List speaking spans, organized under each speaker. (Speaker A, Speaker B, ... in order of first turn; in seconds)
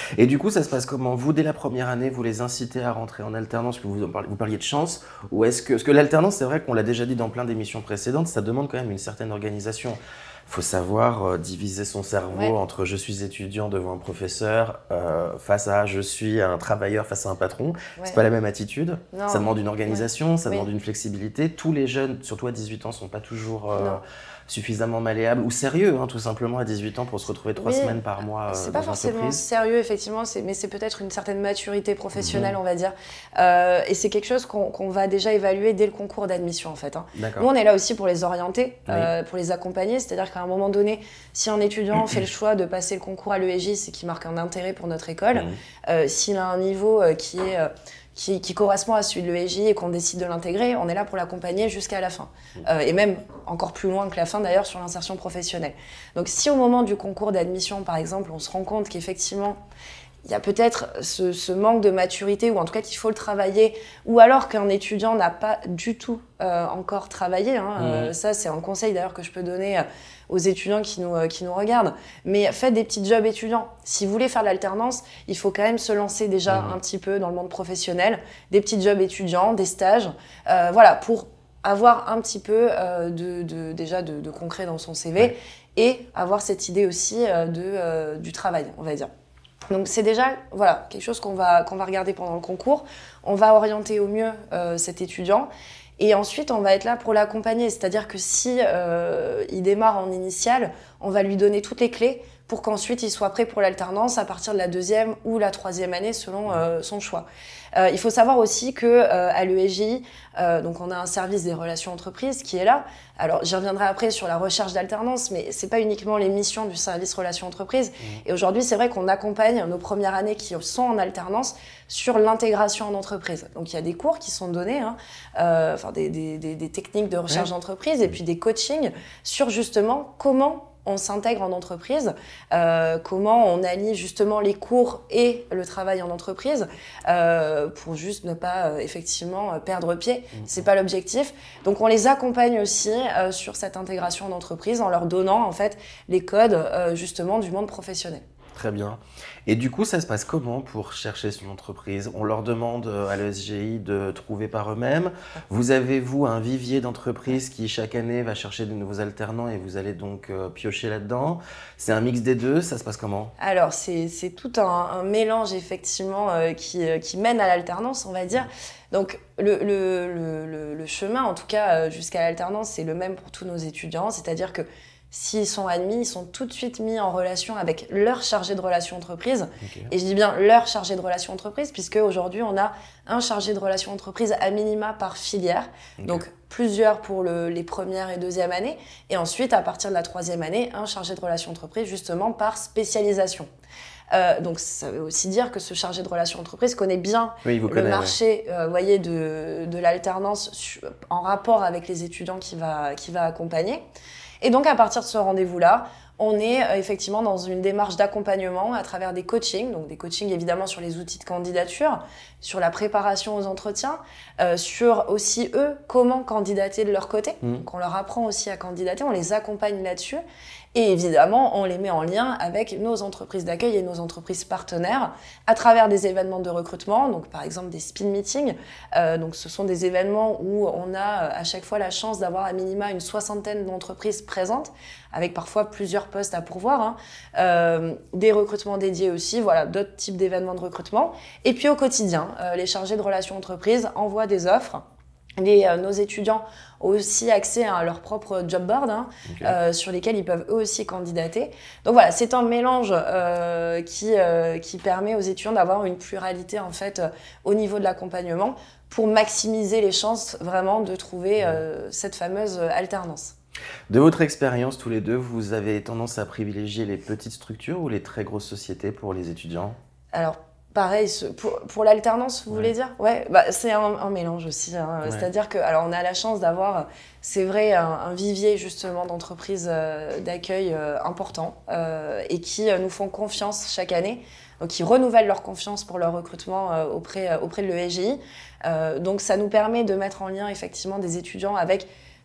Speaker A: 0.1-29.4, 32.1-32.6, 37.1-37.5, 67.8-68.1, 76.5-76.8, 148.5-163.3, 179.6-179.9, 186.0-186.2, 197.4-198.1, 249.2-249.6, 263.9-269.8
Speaker B: 19.1-20.6, 27.6-28.0, 28.5-59.6, 60.2-89.1, 89.7-148.2, 163.4-193.5, 194.1-203.8, 204.4-220.2, 220.7-244.8, 245.4-263.3, 270.1-291.9